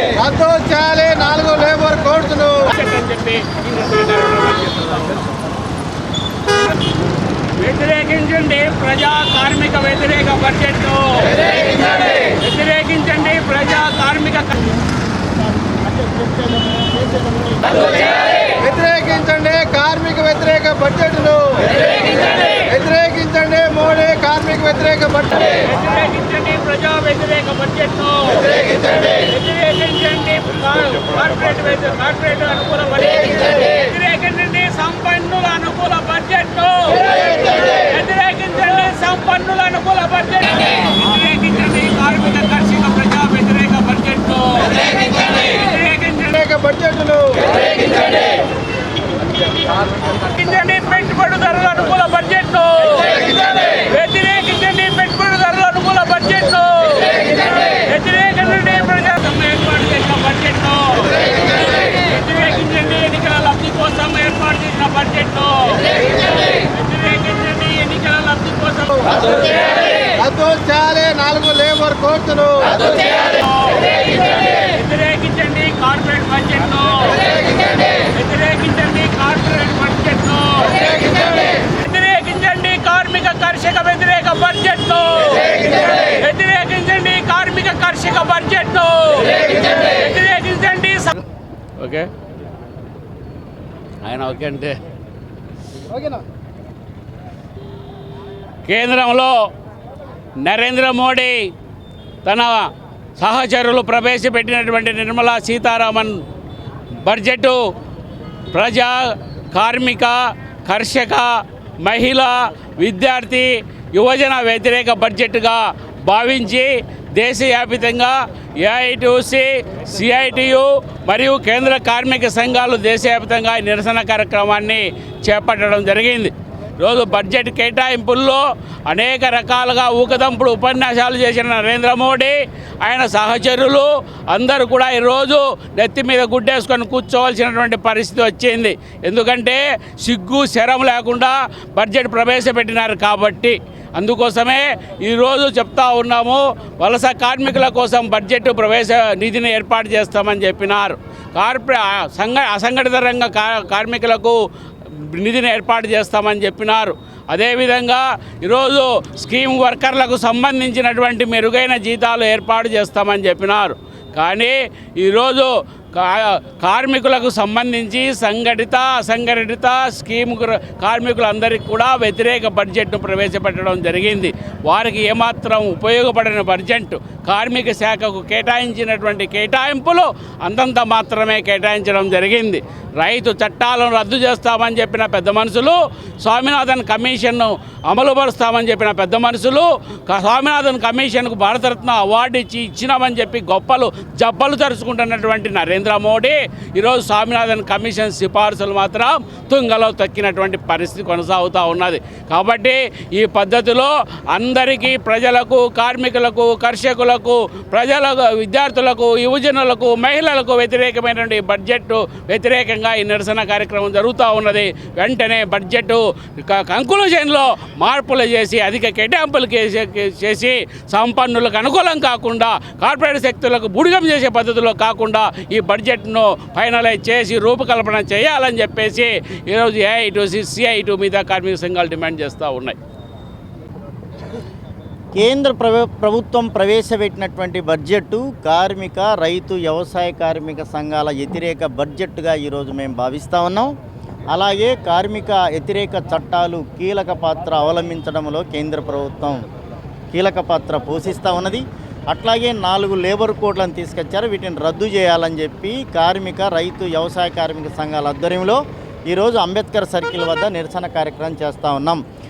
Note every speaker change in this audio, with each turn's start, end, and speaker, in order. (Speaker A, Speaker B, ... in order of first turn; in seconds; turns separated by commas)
Speaker A: 0.1-2.7, Speaker B: 2.7-5.2, Speaker B: 7.6-14.8, Speaker C: 15.6-17.9, Speaker A: 18.6-21.7, Speaker B: 22.1-22.6, Speaker A: 22.7-25.4, Speaker B: 25.4-46.6, Speaker A: 46.6-47.4, Speaker B: 50.1-70.1, Speaker A: 70.2-72.8, Speaker B: 72.8-91.2, Speaker B: 91.8-92.1, Speaker B: 94.0-94.8, Speaker B: 98.6-99.3, Speaker B: 100.4-101.5, Speaker B: 102.2-106.2, Speaker B: 107.0-107.6, Speaker B: 108.5-111.3, Speaker B: 111.8-154.4, Speaker B: 155.0-232.8, Speaker C: 235.2-243.7, Speaker C: 244.3-249.4, Speaker C: 250.1-262.0